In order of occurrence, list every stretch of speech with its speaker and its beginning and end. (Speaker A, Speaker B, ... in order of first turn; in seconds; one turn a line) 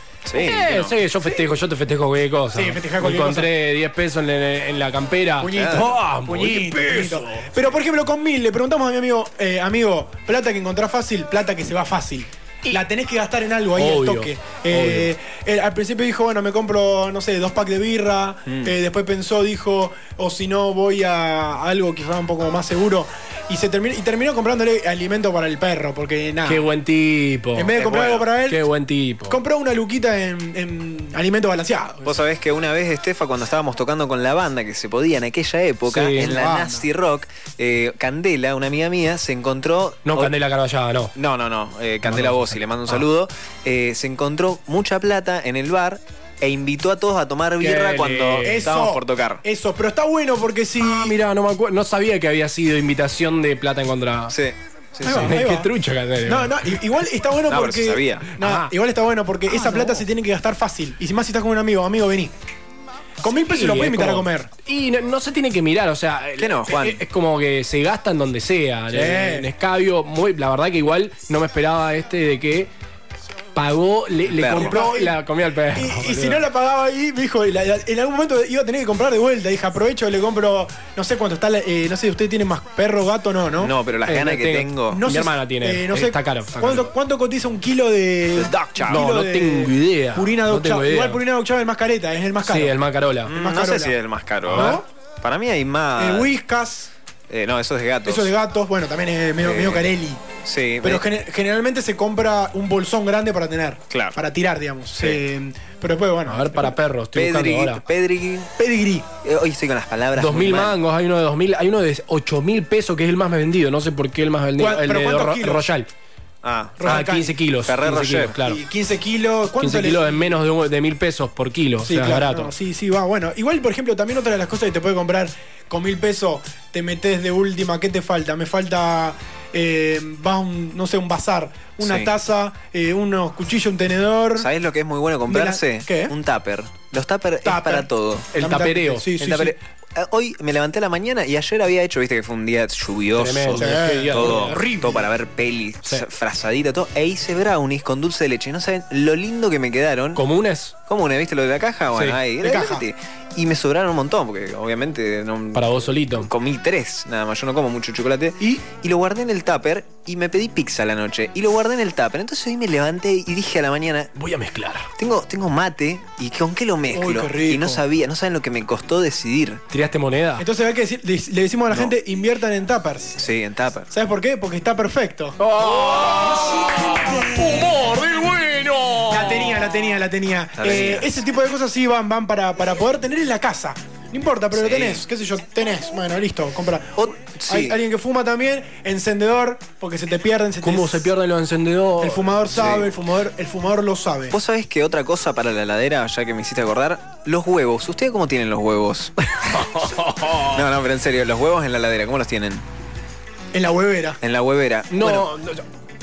Speaker A: 0.2-0.9
Speaker B: 0.3-7.5
Speaker C: 2.5-3.5
Speaker C: 5.4-26.7
Speaker A: 5.5-5.9
Speaker B: 13.8-15.1
Speaker A: 18.4-18.7
Speaker B: 26.4-27.7
Speaker C: 27.5-28.6
Speaker A: 27.8-28.3
Speaker B: 28.5-29.4
Speaker C: 29.3-32.1
Speaker A: 32.0-40.3
Speaker B: 35.9-36.3
Speaker C: 36.1-36.9
Speaker B: 40.0-41.1
Speaker A: 41.1-49.4
Speaker B: 42.0-43.0
Speaker B: 47.6-48.6
Speaker C: 48.4-51.1
Speaker B: 50.8-54.3
Speaker A: 54.3-55.4
Speaker C: 55.0-55.7
Speaker B: 55.1-56.7
Speaker C: 56.2-62.3
Speaker A: 57.5-58.3
Speaker B: 58.4-58.7
Speaker B: 59.5-60.0
Speaker C: 63.2-64.5
Speaker B: 63.4-72.7
Speaker A: 66.4-67.0
Speaker C: 68.9-69.5
Speaker B: 73.5-76.4
Speaker A: 74.3-74.8
Speaker C: 74.5-75.2
Speaker C: 75.7-83.7
Speaker A: 83.6-85.0
Speaker B: 84.1-86.9
Speaker C: 84.9-92.8
Speaker A: 88.4-89.0
Speaker B: 88.6-91.2
Speaker B: 92.4-93.3
Speaker A: 93.3-96.3
Speaker C: 93.3-93.9
Speaker C: 94.5-94.8
Speaker B: 94.5-94.8
Speaker C: 96.0-96.9
Speaker A: 97.3-98.3
Speaker C: 98.0-106.7
Speaker A: 99.4-99.9
Speaker A: 100.4-101.0
Speaker A: 103.9-104.2
Speaker B: 106.3-107.8
Speaker A: 107.1-108.5
Speaker C: 108.6-109.1
Speaker A: 109.2-110.8
Speaker B: 110.2-115.9
Speaker C: 114.6-115.7
Speaker A: 116.4-116.9
Speaker C: 116.8-117.4
Speaker B: 116.8-118.6
Speaker A: 117.6-118.3
Speaker C: 118.4-120.4
Speaker B: 119.6-122.5
Speaker C: 121.8-134.5
Speaker A: 131.8-132.1
Speaker A: 134.4-138.3
Speaker C: 135.3-136.1
Speaker C: 137.4-139.6
Speaker B: 138.3-139.2
Speaker A: 139.2-150.2
Speaker B: 143.2-144.6
Speaker C: 143.5-145.1
Speaker B: 150.1-150.7
Speaker A: 150.9-164.1
Speaker C: 152.4-152.8
Speaker B: 155.5-156.3
Speaker C: 158.4-158.6
Speaker B: 164.2-164.9
Speaker A: 165.0-169.6
Speaker C: 166.9-167.8
Speaker B: 169.7-170.4
Speaker C: 170.4-173.2
Speaker A: 173.2-173.9
Speaker C: 173.9-175.4
Speaker B: 175.4-179.6
Speaker C: 179.1-191.1
Speaker A: 180.6-181.1
Speaker A: 184.5-185.0
Speaker A: 187.0-187.8
Speaker B: 190.6-192.3
Speaker C: 192.0-194.3
Speaker A: 192.5-192.9
Speaker A: 194.3-199.1
Speaker B: 199.3-200.6
Speaker A: 200.4-202.6
Speaker C: 203.5-204.2
Speaker A: 204.2-205.3
Speaker B: 204.9-205.6